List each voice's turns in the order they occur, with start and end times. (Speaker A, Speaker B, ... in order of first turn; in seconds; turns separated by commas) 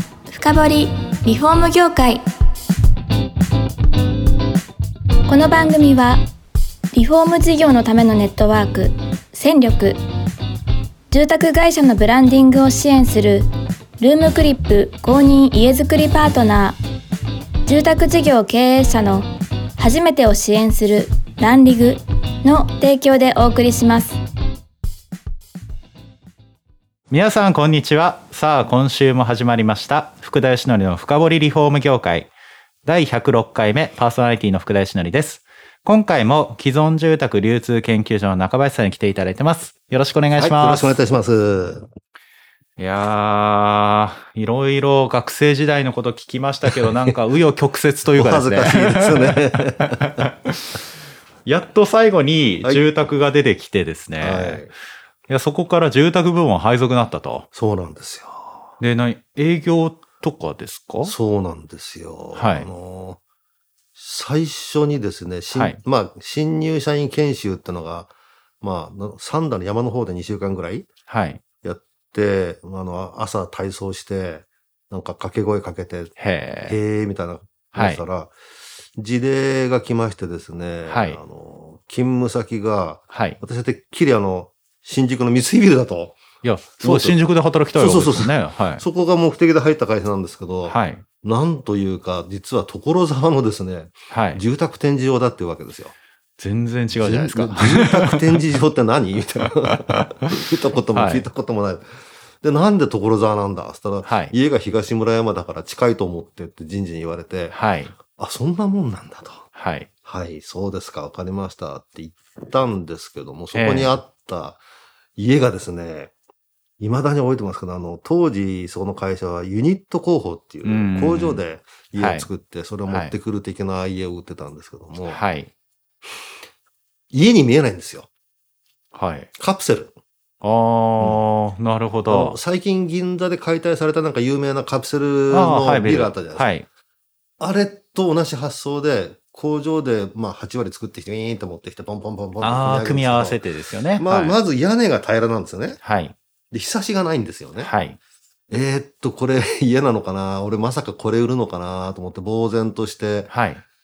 Speaker A: 0.3-2.2, Speaker A: 5.3-6.2, Speaker A: 6.9-10.0, Speaker A: 11.1-13.5, Speaker A: 14.0-16.8, Speaker A: 17.7-24.2, Speaker B: 27.1-32.3, Speaker B: 32.8-41.0, Speaker C: 40.4-41.9, Speaker B: 42.8-50.8, Speaker C: 48.1-50.2, Speaker B: 51.4-54.7, Speaker C: 52.6-52.9, Speaker C: 54.2-54.7, Speaker B: 55.3-57.5, Speaker C: 57.5-58.7, Speaker B: 58.8-61.1, Speaker C: 61.0-63.2, Speaker B: 62.3-62.7, Speaker C: 63.9-70.9, Speaker B: 65.5-65.8, Speaker B: 71.1-71.4, Speaker C: 71.6-78.3, Speaker B: 76.2-76.8, Speaker B: 77.7-78.0, Speaker C: 78.9-86.2, Speaker B: 80.9-81.2, Speaker B: 83.1-83.4, Speaker B: 86.4-88.8, Speaker C: 86.8-87.2, Speaker C: 87.7-95.9, Speaker B: 90.7-91.0, Speaker B: 94.1-94.4, Speaker B: 96.4-98.4, Speaker C: 97.0-101.8, Speaker B: 100.9-101.3, Speaker C: 102.4-109.5, Speaker B: 104.0-104.3, Speaker B: 107.5-107.9, Speaker B: 109.5-109.9, Speaker C: 110.0-114.6, Speaker B: 113.5-113.9, Speaker C: 115.2-116.1, Speaker C: 116.8-125.2, Speaker B: 120.6-121.4, Speaker B: 121.9-122.3, Speaker B: 122.9-123.1, Speaker B: 125.1-125.5, Speaker C: 127.1-128.1, Speaker B: 128.9-129.3, Speaker C: 129.3-129.9, Speaker B: 130.4-132.3, Speaker C: 131.0-131.2, Speaker C: 132.1-136.5, Speaker B: 135.3-136.7, Speaker C: 137.4-143.4, Speaker B: 142.4-144.3, Speaker C: 144.0-145.8, Speaker B: 145.8-146.1, Speaker C: 146.5-147.7, Speaker B: 147.6-148.0, Speaker C: 148.5-153.3, Speaker B: 153.3-153.6